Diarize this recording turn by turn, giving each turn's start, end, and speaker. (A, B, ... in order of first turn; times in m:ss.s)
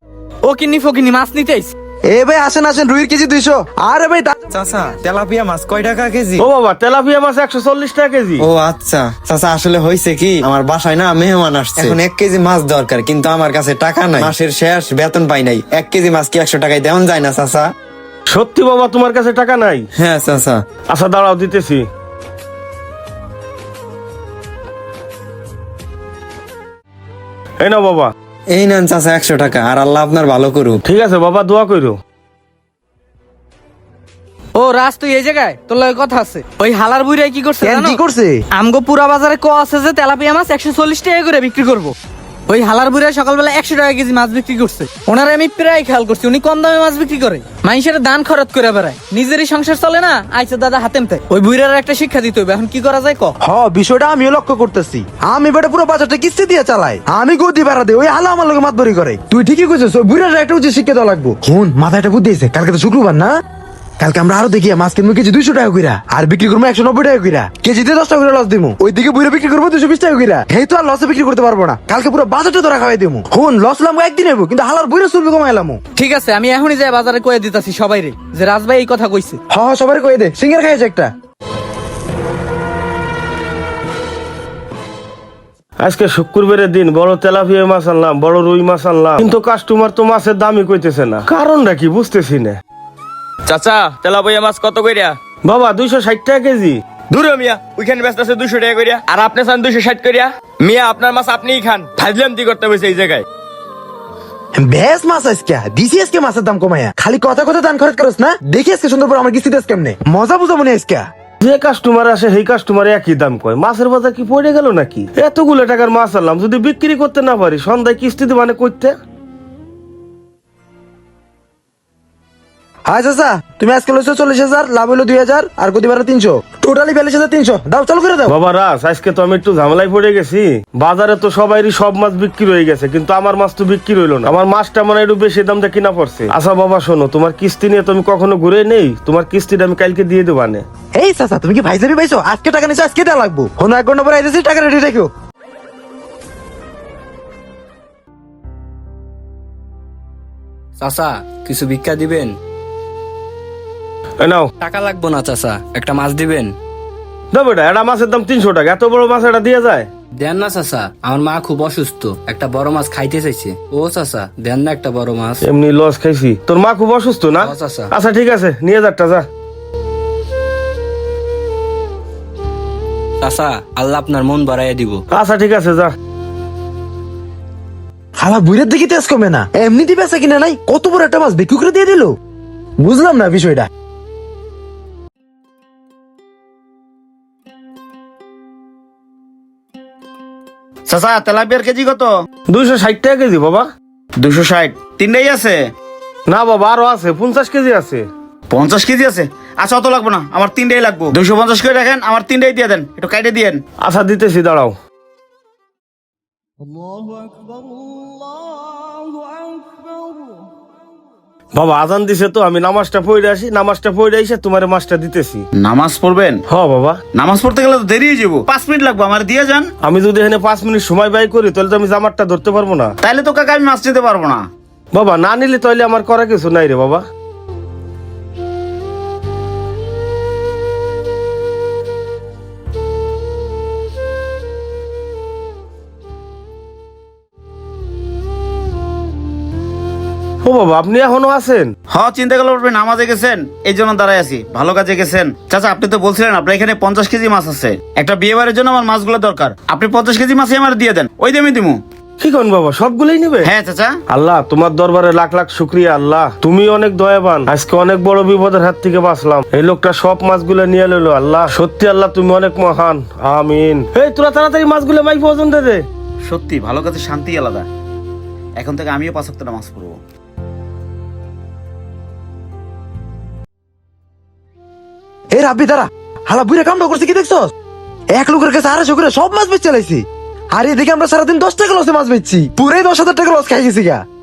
0:00.4-0:01.7 A
0:02.1-0:04.4 B
0:04.5-0:06.5 C
0:06.4-0:08.5 D
0:08.4-0:17.7 C
0:18.3-0:19.8 D
0:20.0-0:20.6 C
0:20.9-0:21.9 D
0:27.6-0:28.1 D
0:28.5-0:30.8 C
0:30.8-0:32.0 D
0:34.6-0:38.0 A
0:37.6-0:38.4 B
0:38.6-0:41.9 A
0:42.5-0:53.4 A
0:53.4-1:03.4 B
1:04.0-1:15.8 B
1:16.0-1:19.4 A
1:19.5-1:21.1 B
1:25.8-1:32.6 D
1:33.5-1:35.2 E
1:35.4-1:36.8 D
1:37.1-1:43.2 E
1:44.6-1:51.1 B
1:51.4-1:59.0 D
2:02.9-2:08.4 B
2:08.3-2:20.6 D
2:21.0-2:25.1 B
2:30.8-2:32.3 F
2:34.2-2:34.5 D
2:34.6-2:36.5 F
2:37.3-2:39.9 D
2:40.2-2:45.4 F
2:45.4-2:49.3 D
2:47.4-2:47.9 F
2:53.2-2:55.0 F
2:55.1-2:56.0 D
2:58.2-3:02.2 B
3:02.8-3:03.7 B
3:10.9-3:12.1 G
3:12.5-3:13.7 D
3:14.2-3:15.6 G
3:16.3-3:18.1 D
3:18.5-3:23.6 G
3:23.8-3:24.8 D
3:31.5-3:35.4 D
3:35.6-3:36.4 G
3:36.5-3:37.0 D
3:37.1-3:39.7 G
3:39.8-3:43.0 D
3:43.0-3:44.4 G
3:44.9-3:47.0 D
4:00.4-4:01.7 D
4:01.9-4:11.8 G
4:12.2-4:13.5 D
4:13.4-4:14.0 G
4:14.1-4:25.9 D
4:26.3-4:27.7 G
4:28.6-4:30.0 G
4:35.3-4:37.5 B
4:38.1-4:44.0 B